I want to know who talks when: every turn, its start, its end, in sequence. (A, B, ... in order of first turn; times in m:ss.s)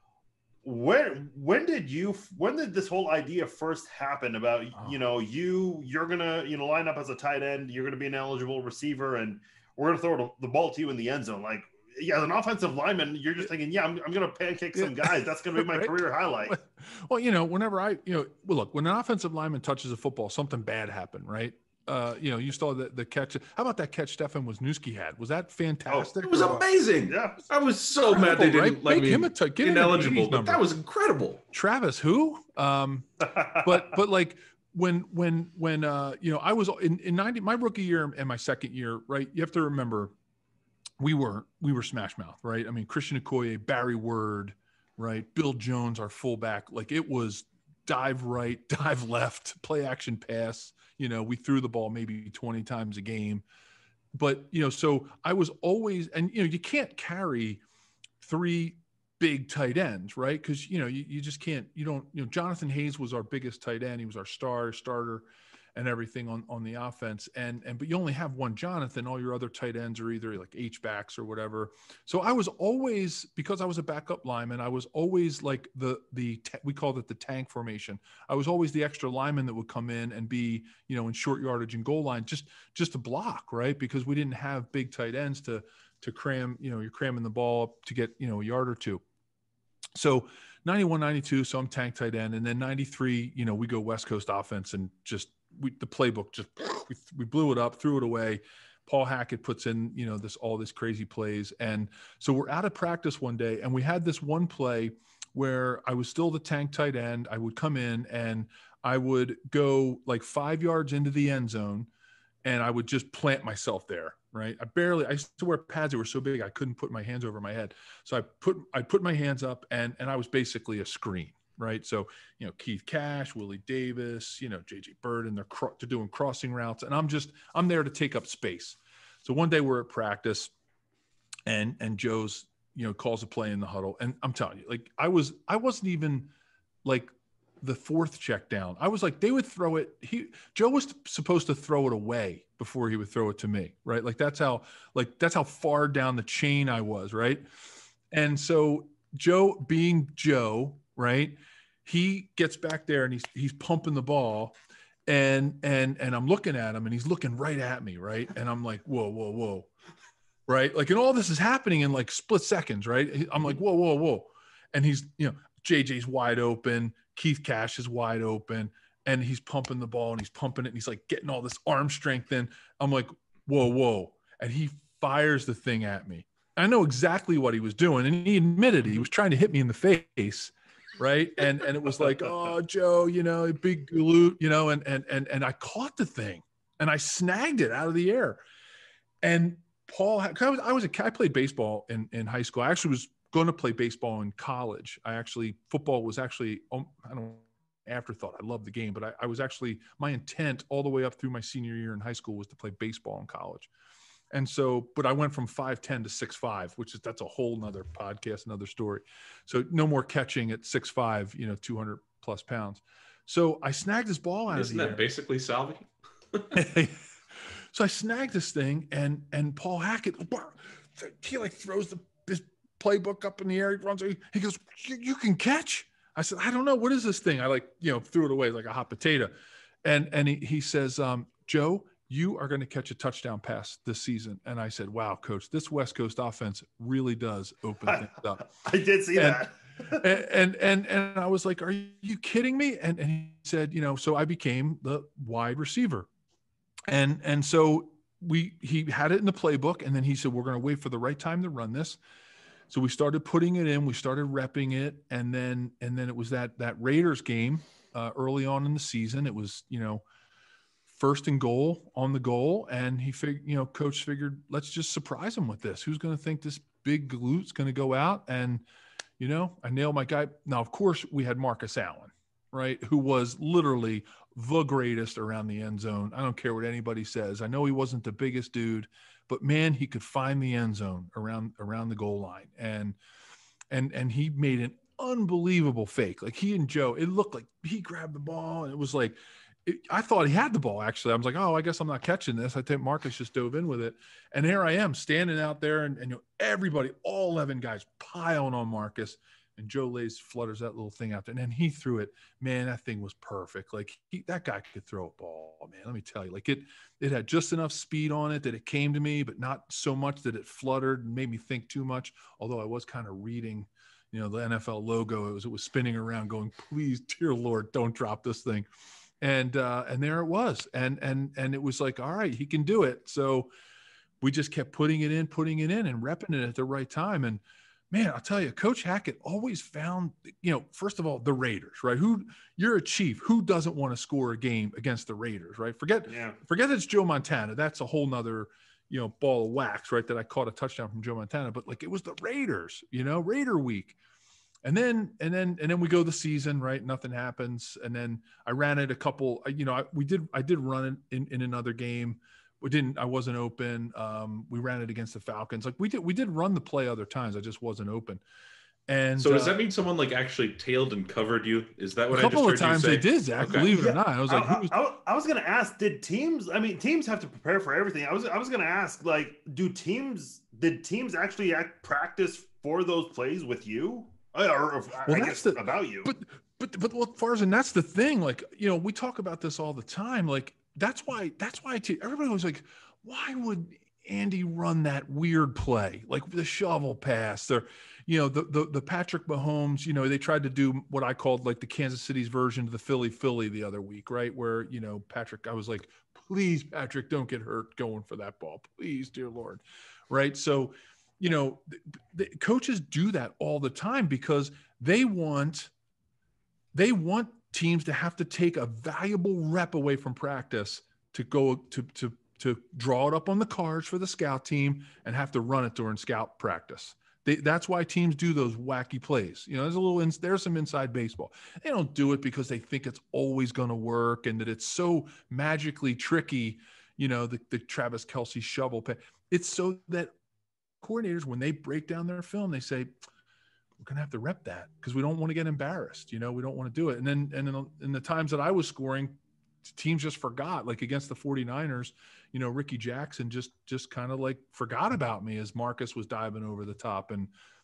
0:00.6-0:16.6 A
0:14.7-0:26.6 B
0:26.2-0:31.4 C
0:27.1-0:27.4 A
0:28.0-0:30.6 B
0:31.5-0:40.1 B
0:33.3-0:33.6 A
0:41.0-0:53.4 B
0:54.1-0:57.6 B
0:58.2-1:29.0 B
1:29.9-1:51.9 B
1:52.4-2:10.5 B
2:11.5-2:16.3 B
2:16.8-2:27.4 B
2:28.1-2:39.7 B
2:40.5-3:08.4 B
3:09.2-3:23.7 B
3:24.3-3:35.0 B
3:34.5-3:36.6 C
3:36.5-3:58.5 B
3:57.8-4:00.0 A
3:59.1-3:59.4 B
3:59.9-4:06.1 B
4:06.9-4:12.0 B
4:12.7-4:20.0 B
4:20.9-4:28.6 B
4:29.2-4:43.0 B
4:43.7-5:18.6 B
5:19.2-5:23.5 B
5:24.2-5:44.0 B
5:36.1-5:36.4 A
5:44.6-5:58.2 B
5:58.9-5:59.6 B
5:59.2-6:03.7 C
6:02.1-6:04.7 B
6:03.7-6:16.1 A
6:15.0-6:45.7 B
6:46.7-7:10.1 B
7:10.8-7:12.9 B
7:13.8-7:27.3 B